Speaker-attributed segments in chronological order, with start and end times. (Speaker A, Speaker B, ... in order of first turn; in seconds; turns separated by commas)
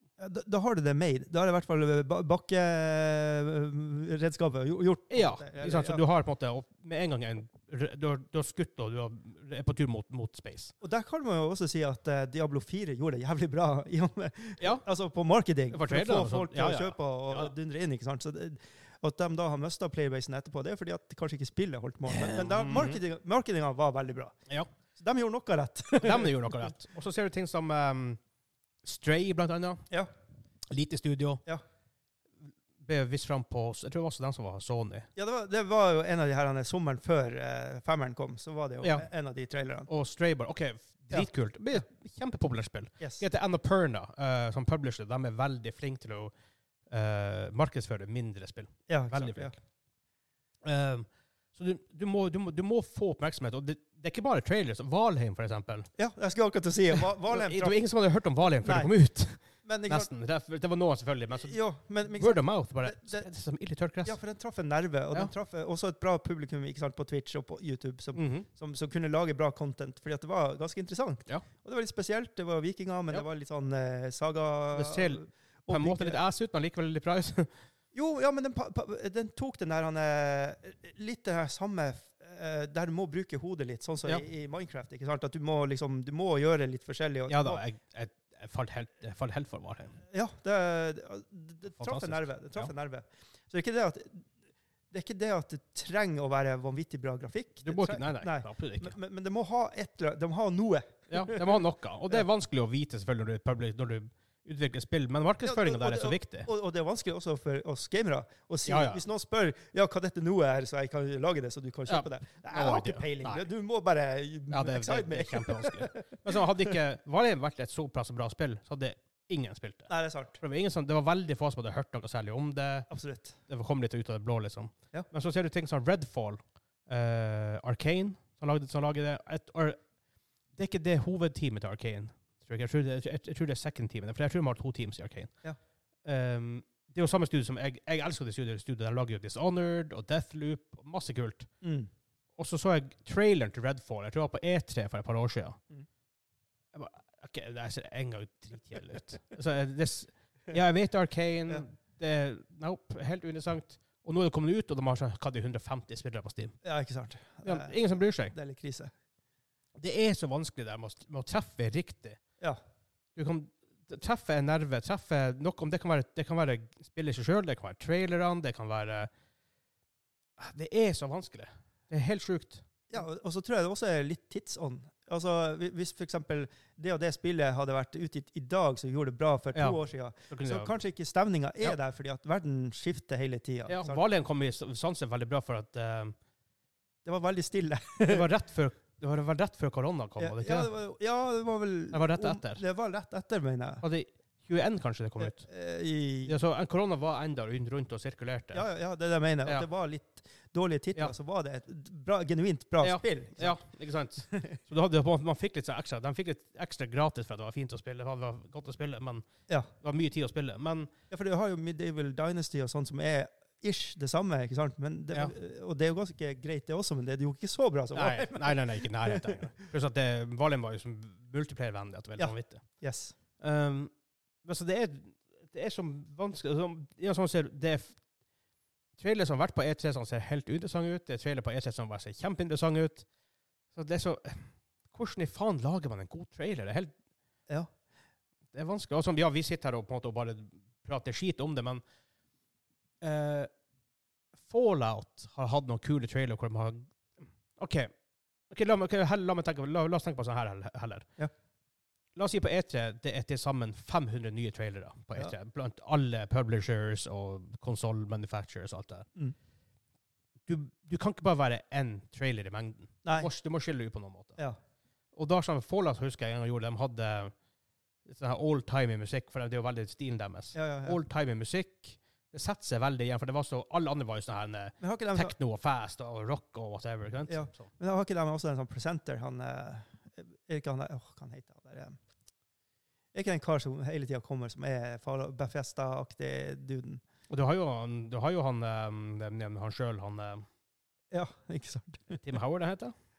Speaker A: 0.2-6.0, Speaker B: 5.1-10.7, Speaker A: 10.8-24.4, Speaker B: 15.7-17.5, Speaker B: 22.1-23.0, Speaker A: 24.9-26.7, Speaker B: 26.0-28.2, Speaker B: 28.8-29.8, Speaker B: 30.7-31.4, Speaker B: 32.8-35.1, Speaker A: 35.1-39.9, Speaker B: 38.8-39.1, Speaker B: 39.9-46.3, Speaker A: 41.1-41.8, Speaker B: 46.9-49.5, Speaker A: 48.9-49.5, Speaker B: 50.6-55.9, Speaker A: 56.0-57.8, Speaker B: 57.3-61.5, Speaker A: 58.6-58.9, Speaker A: 59.6-60.1, Speaker A: 61.4-63.3, Speaker B: 62.1-64.2, Speaker A: 64.0-76.2, Speaker B: 68.1-68.5, Speaker B: 74.7-77.5, Speaker A: 77.9-87.6, Speaker B: 87.3-90.0, Speaker A: 90.1-94.3, Speaker B: 91.8-92.7, Speaker A: 94.9-102.2, Speaker B: 97.6-98.9, Speaker B: 101.1-106.5, Speaker A: 105.4-116.8, Speaker B: 108.7-109.0, Speaker B: 111.9-113.5, Speaker B: 114.5-122.9, Speaker A: 119.9-120.4, Speaker A: 122.9-123.3, Speaker B: 123.5-129.8, Speaker B: 130.5-135.3, Speaker B: 136.0-141.5, Speaker A: 141.6-141.9, Speaker B: 142.4-145.6, Speaker B: 146.7-156.5, Speaker A: 156.6-157.8, Speaker B: 157.4-158.3, Speaker A: 158.3-158.9, Speaker B: 159.8-162.2, Speaker B: 163.2-169.1, Speaker B: 170.4-172.7, Speaker A: 172.9-184.0, Speaker B: 179.5-180.7, Speaker B: 183.7-186.1, Speaker A: 187.0-188.3, Speaker B: 188.1-190.7, Speaker A: 190.2-193.8, Speaker B: 191.9-192.6, Speaker B: 193.8-195.4, Speaker A: 195.2-196.3, Speaker B: 196.2-198.6, Speaker A: 198.5-203.6, Speaker B: 202.8-209.2, Speaker A: 204.3-204.6, Speaker B: 209.8-210.9, Speaker A: 211.1-219.5, Speaker B: 217.9-222.7, Speaker A: 222.2-223.1, Speaker B: 223.4-223.9, Speaker B: 224.4-228.0, Speaker B: 229.0-233.1, Speaker B: 233.7-236.9, Speaker B: 238.5-241.8, Speaker B: 243.0-243.5, Speaker B: 244.3-247.9, Speaker B: 248.5-251.1, Speaker B: 252.2-259.1, Speaker B: 260.5-264.4, Speaker A: 263.0-263.3, Speaker B: 265.1-267.3, Speaker B: 268.1-277.7, Speaker A: 270.5-271.0, Speaker A: 274.8-275.3, Speaker A: 277.3-282.0, Speaker A: 283.1-287.0, Speaker B: 287.3-290.4, Speaker A: 291.1-292.2, Speaker B: 292.2-292.9